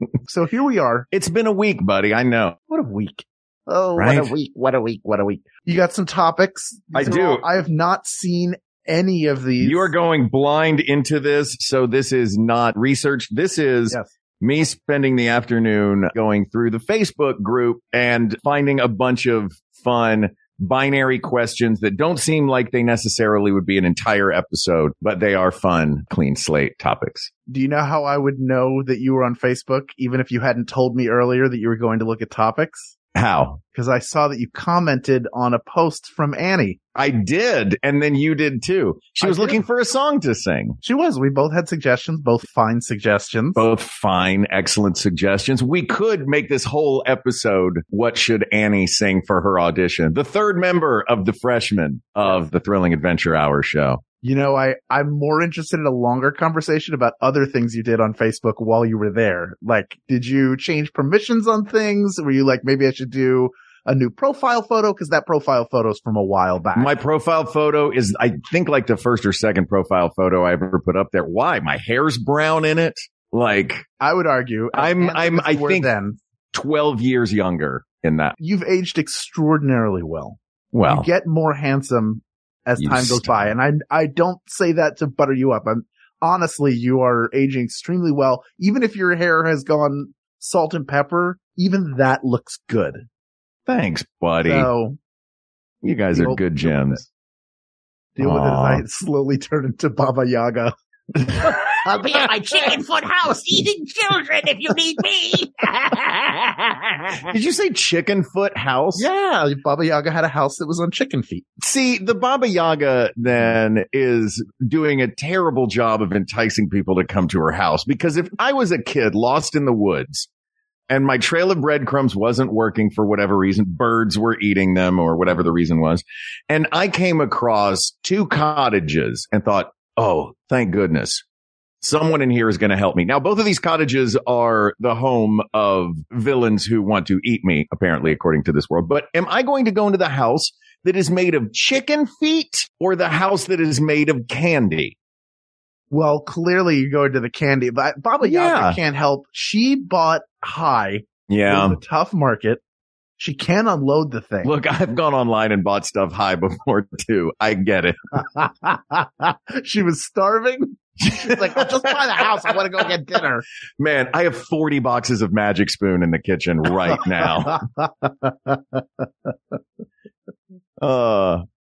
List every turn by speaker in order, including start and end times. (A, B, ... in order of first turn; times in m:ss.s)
0:00.2-0:01.1 A
0:01.1-0:02.6 B
0:02.7-0:09.9 A
0:04.0-0:04.3 B
0:06.9-0:07.4 B
0:09.6-0:27.3 B
0:27.5-0:32.9 A
0:33.1-0:33.6 B
0:33.7-0:36.8 A
0:36.9-0:40.8 B
0:39.2-0:39.6 A
0:40.8-0:43.6 A
0:43.6-0:54.0 B
0:54.2-1:06.9 A
1:06.7-1:13.9 B
1:14.0-1:16.2 A
1:14.7-1:15.9 B
1:16.5-1:18.4 B
1:18.4-1:33.0 A
1:20.7-1:21.1 B
1:22.8-1:23.5 B
1:33.7-1:34.7 B
1:34.4-1:35.0 A
1:35.8-1:37.0 B
1:36.1-1:37.0 A
1:38.2-1:40.7 A
1:38.2-1:38.8 B
1:41.6-1:47.2 C
1:47.3-1:49.1 B
1:48.9-1:51.4 A
1:51.6-2:00.3 B
2:00.9-2:11.2 B
2:11.8-2:24.9 B
2:25.9-2:32.6 A
2:28.2-2:28.8 B
2:31.3-2:31.8 B
2:33.2-2:34.5 A
2:34.4-2:38.0 B
2:38.2-2:43.4 A
2:41.0-2:41.9 B
2:43.8-2:47.6 B
2:46.9-2:49.0 A
2:50.8-2:51.4 B